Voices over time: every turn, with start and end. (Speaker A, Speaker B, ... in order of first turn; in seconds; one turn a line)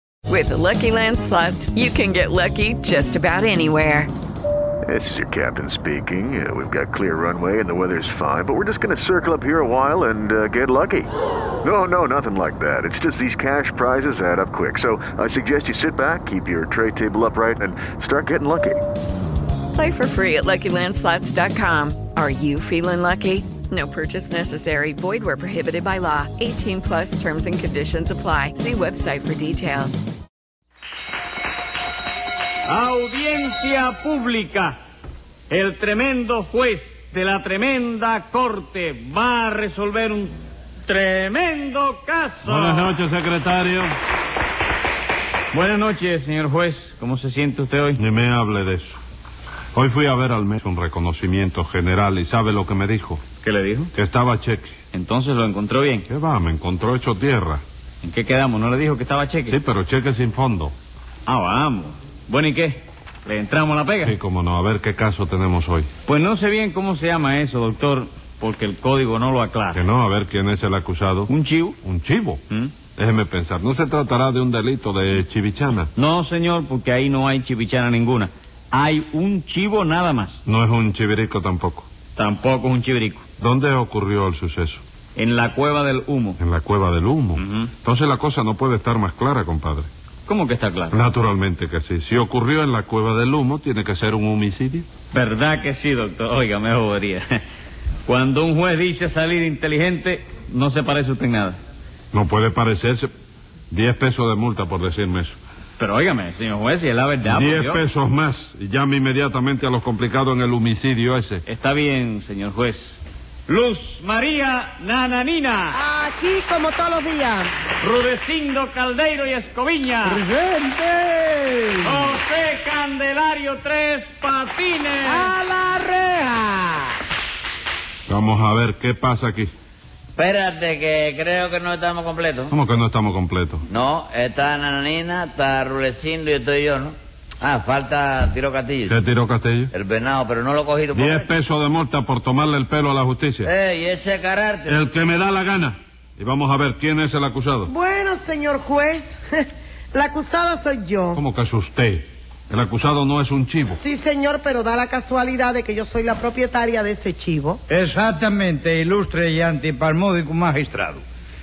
Speaker A: 0.3-4.1
Speaker B: 4.9-11.1
Speaker B: 11.6-18.8
Speaker A: 19.7-30.1
Speaker C: 32.7-34.8
Speaker C: 35.5-43.0
Speaker D: 42.4-44.0
Speaker C: 45.5-48.0
Speaker D: 48.0-49.0
Speaker D: 49.7-53.2
Speaker C: 53.4-53.9
Speaker D: 53.9-54.8
Speaker C: 54.9-56.1
Speaker D: 56.1-57.6
Speaker C: 58.0-59.6
Speaker D: 59.5-60.7
Speaker C: 61.3-64.2
Speaker D: 64.0-65.9
Speaker C: 66.0-69.8
Speaker D: 69.7-71.3
Speaker C: 71.3-71.8
Speaker D: 71.8-72.4
Speaker D: 73.0-75.9
Speaker C: 76.0-80.4
Speaker D: 80.5-81.9
Speaker C: 82.2-83.2
Speaker D: 83.4-84.8
Speaker C: 85.2-86.4
Speaker D: 86.4-89.9
Speaker C: 87.4-87.7
Speaker C: 90.3-91.0
Speaker D: 90.9-94.9
Speaker C: 95.1-97.4
Speaker C: 98.1-101.6
Speaker D: 102.1-103.1
Speaker D: 103.7-105.4
Speaker C: 105.8-107.8
Speaker D: 107.2-111.4
Speaker C: 111.5-115.8
Speaker E: 115.7-117.5
Speaker C: 117.8-120.2
Speaker F: 120.0-122.2
Speaker C: 121.8-126.4
Speaker D: 128.1-129.5
Speaker G: 130.2-132.6
Speaker D: 132.5-133.6
Speaker G: 133.7-139.0
Speaker D: 138.9-139.7
Speaker G: 139.7-141.3
Speaker D: 140.9-143.5
Speaker G: 143.4-144.8
Speaker D: 144.7-147.7
Speaker E: 147.7-151.2
Speaker D: 151.1-153.8
Speaker E: 153.7-157.6
Speaker F: 157.7-161.0